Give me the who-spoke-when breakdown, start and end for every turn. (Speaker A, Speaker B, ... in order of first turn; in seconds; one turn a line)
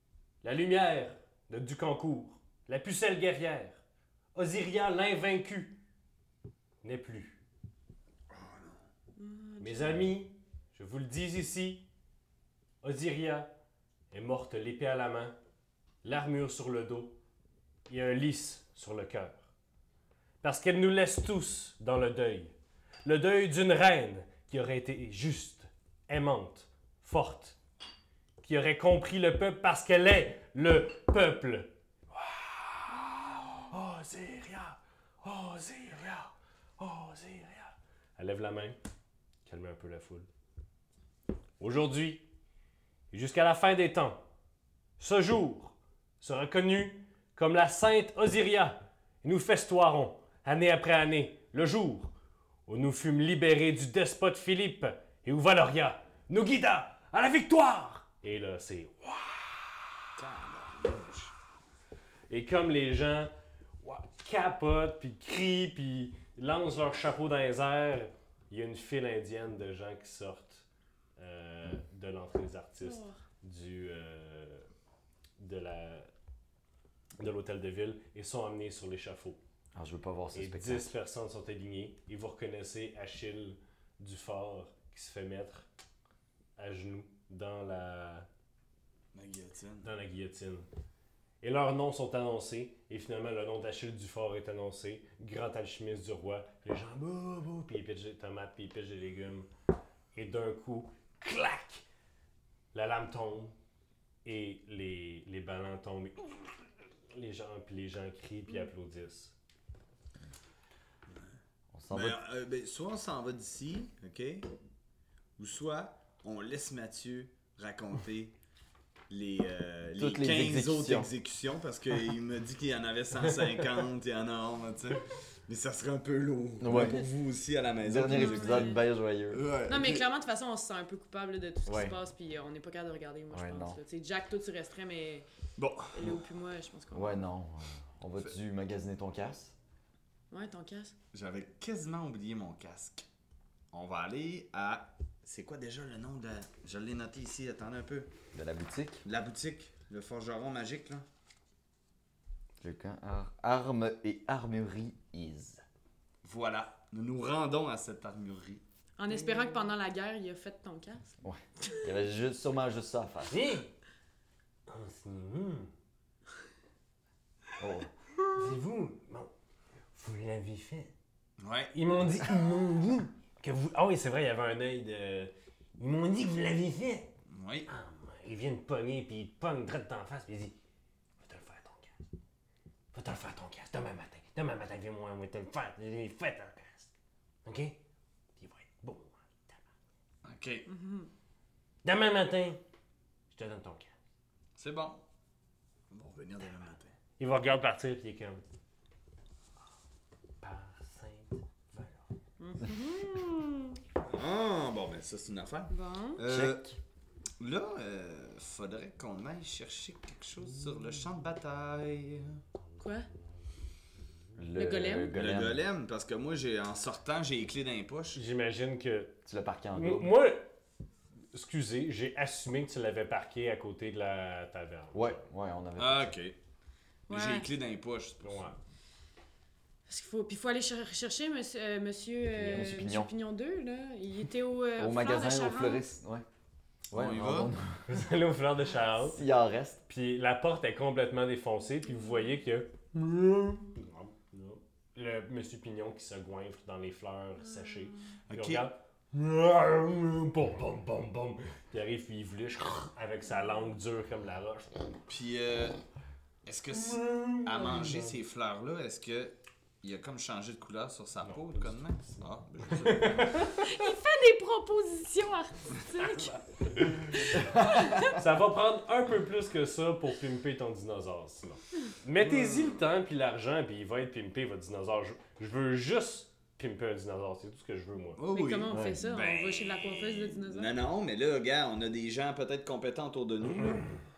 Speaker A: 0.4-3.8
Speaker A: 4.3-5.8
Speaker A: 6.8-7.4
Speaker B: 8.3-8.8
Speaker C: 9.2-10.1
Speaker A: 9.6-11.8
Speaker A: 12.8-13.5
Speaker A: 14.1-15.3
Speaker A: 16.0-17.2
Speaker A: 17.9-19.4
Speaker A: 20.4-22.5
Speaker A: 23.0-27.6
Speaker A: 28.4-38.8
Speaker A: 39.5-40.3
Speaker A: 41.6-42.2
Speaker A: 43.1-44.2
Speaker A: 45.0-52.1
Speaker A: 52.7-60.1
Speaker B: 60.2-61.3
Speaker A: 62.3-63.3
Speaker A: 63.8-70.6
Speaker A: 71.2-74.7
Speaker C: 72.8-73.2
Speaker A: 75.4-76.1
Speaker A: 77.2-79.4
Speaker D: 79.7-80.9
Speaker A: 80.3-85.7
Speaker A: 86.6-88.3
Speaker B: 89.1-89.9
Speaker A: 89.8-90.7
Speaker A: 91.4-99.5
Speaker A: 100.1-101.8
Speaker A: 102.7-103.6
Speaker A: 104.2-106.6
Speaker A: 107.1-109.3
Speaker D: 111.7-112.2
Speaker B: 111.9-114.5
Speaker B: 115.4-118.3
Speaker B: 119.1-128.7
Speaker D: 120.0-121.1
Speaker D: 126.6-127.0
Speaker D: 127.8-129.5
Speaker C: 128.0-128.8
Speaker B: 129.3-130.0
Speaker C: 129.7-135.2
Speaker D: 131.7-131.9
Speaker D: 133.3-133.8
Speaker B: 135.6-136.2
Speaker C: 135.9-137.2
Speaker D: 136.9-139.5
Speaker C: 140.3-140.9
Speaker B: 141.1-143.1
Speaker B: 143.7-148.1
Speaker D: 148.3-149.0
Speaker B: 149.0-151.0
Speaker D: 152.6-155.6
Speaker B: 156.2-158.6
Speaker C: 159.0-161.1
Speaker A: 159.1-159.7
Speaker D: 161.2-163.4
Speaker A: 163.3-163.7
Speaker A: 164.7-165.7
Speaker D: 167.6-167.9
Speaker A: 168.3-169.3
Speaker A: 169.9-170.9
Speaker B: 171.4-171.7
Speaker A: 171.7-177.1
Speaker B: 177.3-177.7
Speaker A: 177.7-180.5
Speaker A: 181.2-182.0
Speaker A: 182.9-186.9
Speaker A: 187.4-187.8
Speaker A: 188.4-189.6
Speaker B: 190.2-190.7
Speaker C: 190.7-191.1
Speaker A: 191.8-192.6
Speaker A: 193.3-193.9
Speaker B: 194.6-195.0
Speaker B: 195.9-196.9
Speaker A: 197.2-198.4
Speaker A: 200.4-202.1
Speaker C: 202.4-203.8
Speaker B: 204.0-206.6
Speaker C: 205.7-206.2
Speaker D: 206.2-206.8
Speaker B: 207.4-212.4
Speaker C: 212.8-213.1
Speaker D: 214.3-215.6
Speaker C: 214.6-215.1
Speaker B: 215.1-218.2
Speaker A: 218.1-219.2
Speaker D: 219.2-220.1
Speaker A: 219.7-220.5
Speaker A: 221.3-225.2
Speaker D: 224.9-226.1
Speaker B: 225.8-226.4
Speaker C: 227.1-227.5
Speaker B: 227.1-228.5
Speaker A: 228.2-228.6
Speaker C: 229.9-235.8
Speaker D: 232.3-233.1
Speaker D: 234.8-236.2
Speaker D: 236.9-238.0
Speaker B: 236.9-237.5
Speaker A: 237.9-239.2
Speaker D: 239.1-239.8
Speaker A: 239.9-254.8
Speaker C: 247.8-248.1
Speaker B: 248.3-248.7
Speaker B: 255.1-255.8
Speaker B: 256.4-263.5
Speaker A: 256.7-258.1
Speaker A: 261.2-263.9
Speaker C: 263.6-266.4
Speaker A: 266.1-278.2
Speaker C: 267.1-268.2
Speaker B: 272.2-272.8
Speaker B: 278.2-283.9
Speaker C: 278.3-280.7
Speaker A: 278.7-279.0